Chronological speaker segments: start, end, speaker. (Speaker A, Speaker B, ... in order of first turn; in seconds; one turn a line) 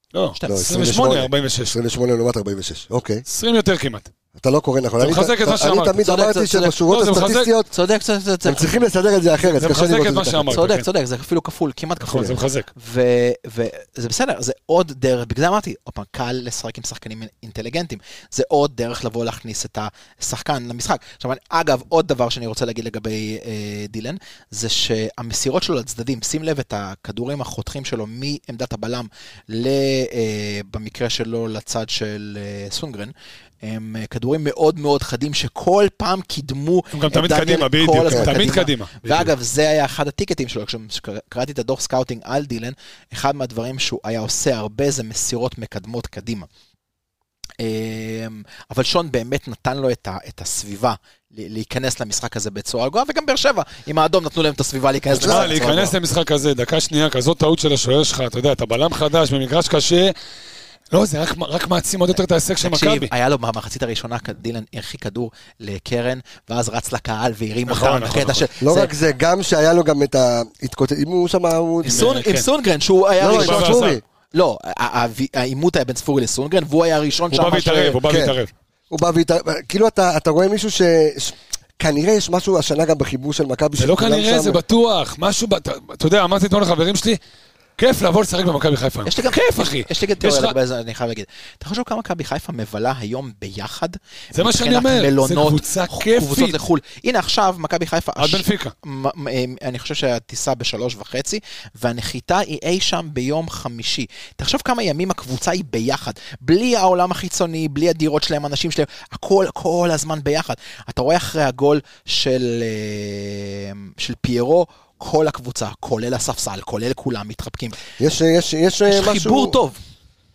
Speaker A: 0.1-1.8
Speaker B: 0.3-0.7
Speaker C: 0.5-3.2
Speaker A: 3.3-4.1
Speaker C: 4.3-7.7
Speaker A: 5.0-6.0
Speaker B: 6.0-6.8
Speaker A: 6.9-7.5
Speaker B: 7.7-8.9
Speaker C: 8.4-10.6
Speaker A: 9.5-10.9
Speaker B: 10.5-46.5
Speaker A: 12.0-12.7
Speaker A: 36.9-39.3
Speaker B: 47.6-56.0
Speaker A: 55.2-60.1
Speaker C: 55.2-55.5
Speaker A: 60.9-63.1
Speaker B: 62.6-68.9
Speaker A: 67.7-68.5
Speaker C: 68.6-72.1
Speaker B: 71.8-78.0
Speaker A: 71.8-72.5
Speaker C: 73.2-74.0
Speaker A: 73.2-74.0
Speaker A: 77.3-78.5
Speaker C: 78.1-78.3
Speaker C: 78.9-84.6
Speaker A: 83.8-87.2
Speaker A: 87.8-90.5
Speaker B: 89.1-117.8
Speaker A: 94.3-96.6
Speaker A: 98.2-98.7
Speaker C: 118.0-119.6
Speaker B: 118.9-119.8